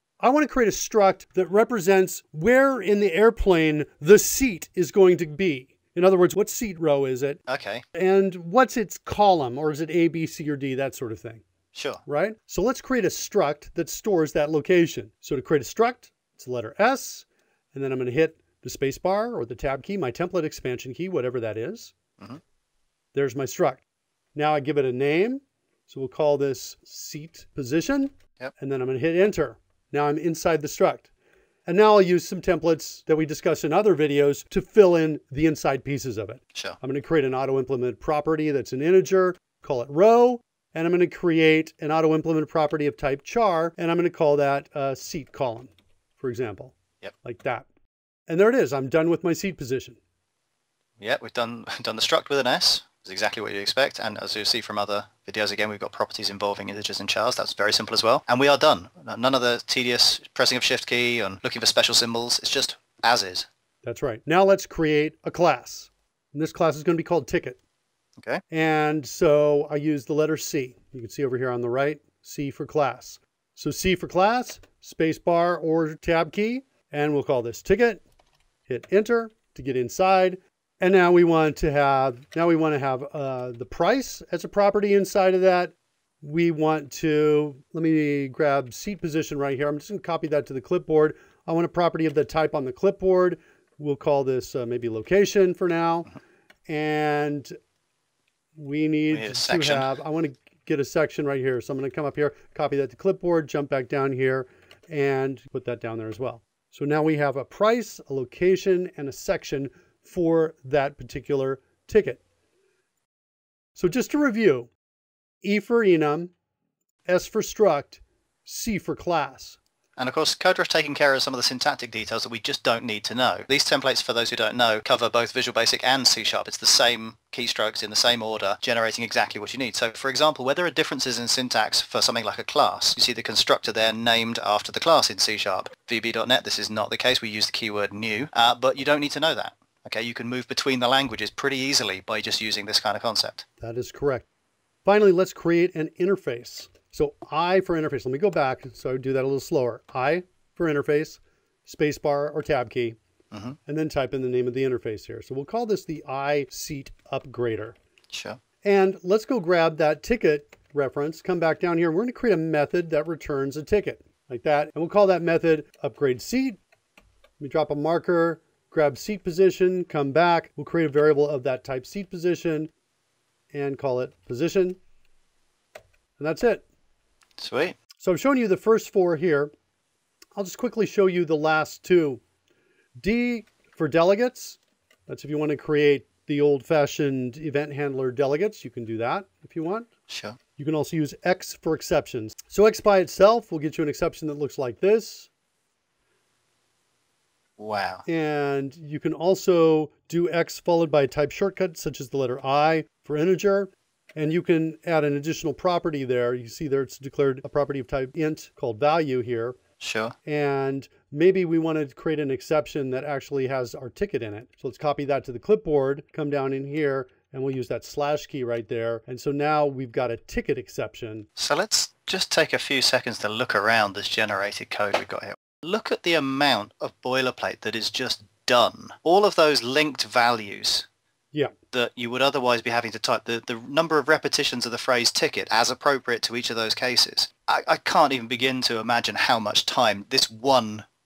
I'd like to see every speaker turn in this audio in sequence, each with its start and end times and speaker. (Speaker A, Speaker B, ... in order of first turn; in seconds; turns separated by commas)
Speaker A: 0.2-7.4, Speaker B: 7.5-7.8, Speaker A: 8.0-11.4, Speaker B: 11.7-12.0, Speaker A: 12.1-21.9, Speaker A: 23.1-23.8, Speaker A: 24.4-31.1, Speaker A: 31.7-47.7, Speaker A: 48.3-50.0, Speaker B: 51.0-63.5, Speaker A: 63.8-67.6, Speaker A: 68.5-78.0, Speaker A: 78.7-96.1, Speaker A: 96.7-97.5, Speaker A: 98.6-112.2, Speaker B: 99.1-99.9, Speaker A: 113.8-114.7, Speaker A: 115.4-116.3, Speaker A: 117.1-119.6, Speaker B: 120.0-143.4, Speaker A: 143.6-144.3, Speaker A: 144.8-153.0, Speaker B: 153.3-153.6, Speaker A: 153.7-157.8, Speaker B: 158.1-158.4, Speaker A: 158.6-166.6, Speaker A: 167.4-172.7, Speaker A: 173.5-174.8, Speaker A: 176.2-176.6, Speaker B: 177.4-177.8, Speaker A: 178.0-179.5, Speaker A: 180.3-182.2, Speaker A: 183.0-189.9, Speaker B: 190.1-190.4, Speaker A: 190.6-195.3, Speaker B: 197.6-198.0, Speaker A: 198.1-209.6, Speaker B: 209.8-210.2, Speaker A: 210.3-221.3, Speaker B: 221.4-230.9, Speaker B: 231.7-240.8